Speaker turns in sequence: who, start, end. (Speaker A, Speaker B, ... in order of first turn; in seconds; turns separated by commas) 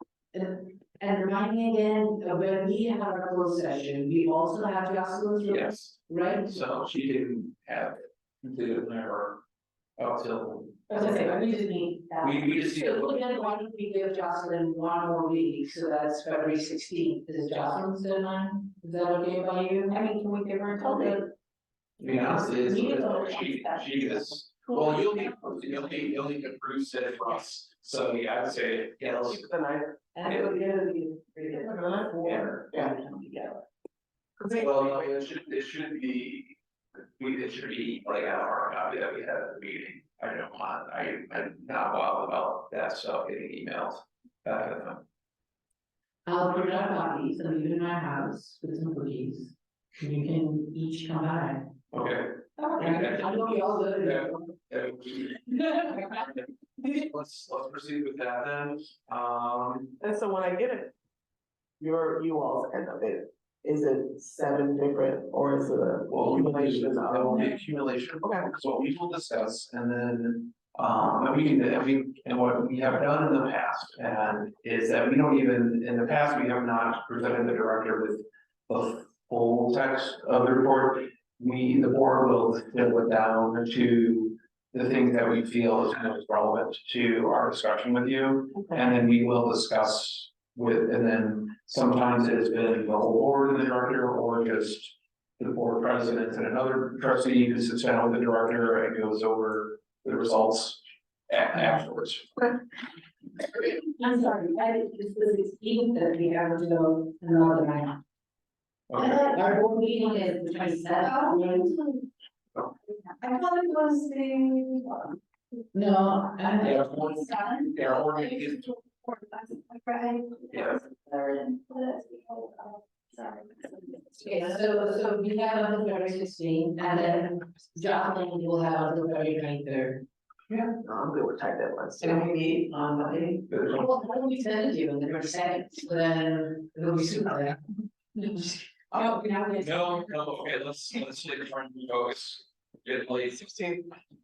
Speaker A: 0.3-6.6, Speaker B: 5.5-9.4, Speaker B: 10.0-11.3, Speaker C: 10.9-12.4, Speaker A: 10.9-12.1, Speaker B: 12.2-13.3, Speaker A: 12.7-20.0, Speaker C: 19.9-21.3, Speaker D: 20.8-21.2, Speaker B: 22.0-29.5, Speaker C: 22.5-24.7, Speaker D: 24.9-25.8, Speaker D: 29.3-30.7, Speaker C: 30.2-33.6, Speaker D: 31.3-33.4, Speaker B: 32.2-32.6, Speaker D: 34.4-35.2, Speaker B: 34.5-36.6, Speaker B: 37.2-45.0, Speaker A: 46.3-51.6, Speaker B: 51.9-53.4, Speaker A: 52.8-54.5, Speaker B: 54.0-60.0, Speaker D: 60.0-61.0, Speaker D: 61.8-67.5, Speaker B: 66.1-102.6, Speaker D: 68.2-68.5, Speaker A: 103.6-108.0, Speaker B: 108.9-109.3, Speaker A: 109.0-111.8, Speaker C: 113.2-114.7, Speaker A: 115.7-117.0, Speaker B: 116.6-118.7, Speaker C: 117.6-118.4, Speaker C: 118.9-124.4, Speaker B: 120.5-120.8, Speaker A: 124.2-130.0, Speaker B: 130.5-130.7, Speaker D: 130.8-133.3, Speaker A: 132.0-137.6, Speaker B: 133.5-134.0, Speaker A: 138.2-140.0, Speaker D: 138.9-139.2, Speaker B: 139.6-143.4, Speaker D: 143.3-143.9